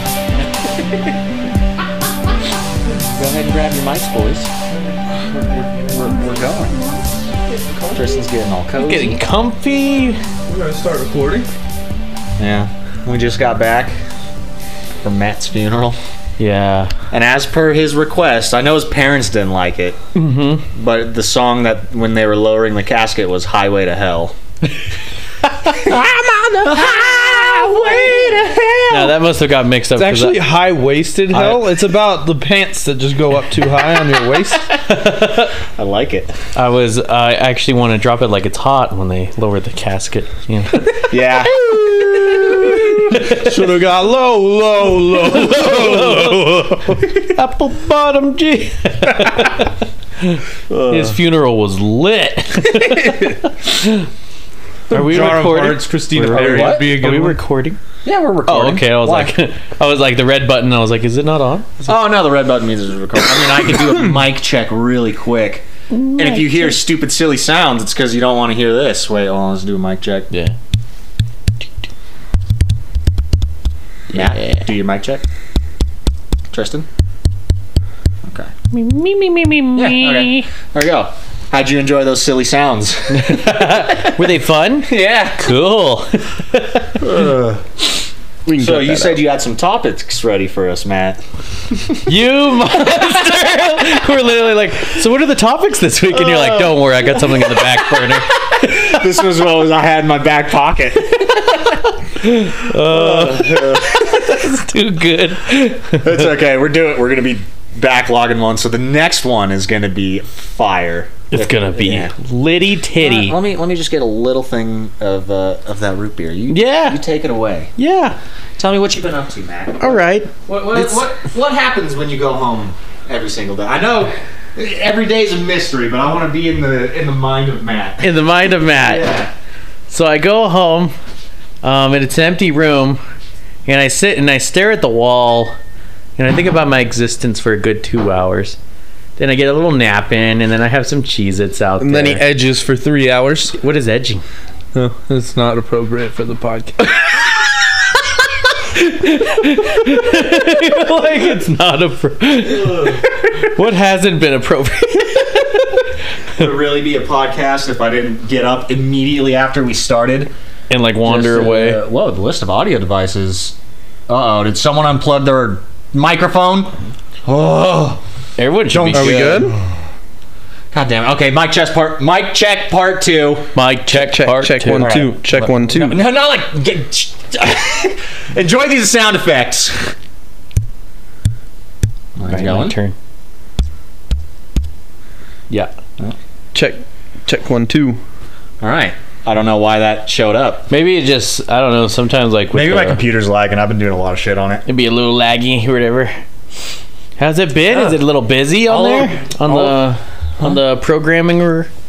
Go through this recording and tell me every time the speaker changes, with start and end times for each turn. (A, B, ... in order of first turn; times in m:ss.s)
0:00.3-0:01.1 A
0:03.1-0:04.5 A
0:05.2-0:05.8 B
0:05.9-0:06.8 A
0:07.6-0:07.9 B
0:07.9-0:09.2 A
0:08.8-0:10.2 C
0:10.5-0:11.5 B
0:12.4-0:14.0 A
0:15.0-0:16.0 A
0:16.4-0:16.9 C
0:17.1-0:20.0 A
0:20.1-0:20.6 C
0:20.7-0:24.4 A
0:25.7-0:29.1 A
0:28.9-0:30.4 C
0:30.0-0:34.7 B
0:31.3-0:31.6 C
0:34.8-0:35.5 C
0:35.6-0:36.3 A
0:36.5-0:40.9 C
0:41.1-0:41.5 A
0:41.4-0:46.6 B
0:42.3-0:43.6 C
0:42.4-0:42.7 A
0:45.2-0:54.1 C
0:50.7-0:51.2 A
0:54.9-0:57.4 B
0:54.9-0:57.8 C
0:55.1-0:55.7 A
0:56.3-0:56.9 A
0:58.0-0:59.3 A
0:58.5-1:01.9 C
1:01.8-1:10.3 A
1:05.9-1:06.8 C
1:10.3-1:10.6 C
1:14.1-1:15.2 A
1:14.1-1:14.6 C
1:16.5-1:16.8 A
1:18.3-1:18.5 A
1:18.7-1:20.5 C
1:19.8-1:24.3 A
1:23.1-1:27.2 C
1:24.8-1:25.5 A
1:27.0-1:27.6 A
1:28.4-1:29.2 B
1:28.5-1:31.2 A
1:31.7-1:32.0 A
1:32.0-1:39.0 C
1:36.1-1:41.8 A
1:42.2-1:46.1 C
1:42.6-1:44.4 A
1:46.0-1:52.1 A
1:51.3-1:53.4 C
1:53.0-1:57.7 A
1:56.5-1:57.0 C
1:57.8-1:58.2 C
1:58.6-2:08.1 A
1:59.8-2:01.1 C
2:08.0-2:09.1 C
2:08.7-2:09.3 A
2:09.9-2:10.9 C
2:11.6-2:13.0 C
2:13.6-2:15.6 C
2:16.2-2:18.6 C
2:19.2-2:22.2 C
2:21.8-2:23.6 B
2:23.5-2:24.2 C
2:24.7-2:26.9 B
2:27.0-2:27.4 C
2:28.6-2:35.8 C
2:32.4-2:33.0 A
2:36.4-2:40.3 A
2:40.7-2:41.8 C
2:41.0-2:43.5 A
2:44.1-2:46.7 A
2:47.2-2:48.0 A
2:48.4-2:49.5 C
2:48.7-2:49.7 A
2:48.8-2:49.6 B
2:50.7-2:53.5 A
2:53.5-2:55.0 C
2:53.9-2:56.0 B
2:54.8-2:59.9 A
3:02.2-3:02.8 A
3:02.2-3:02.9 C
3:06.5-3:08.0 B
3:08.6-3:10.7 A
3:10.7-3:13.0 C
3:12.5-3:14.6 A
3:14.6-3:16.2 C
3:17.2-3:21.7 C
3:17.6-3:18.0 A
3:18.6-3:19.7 A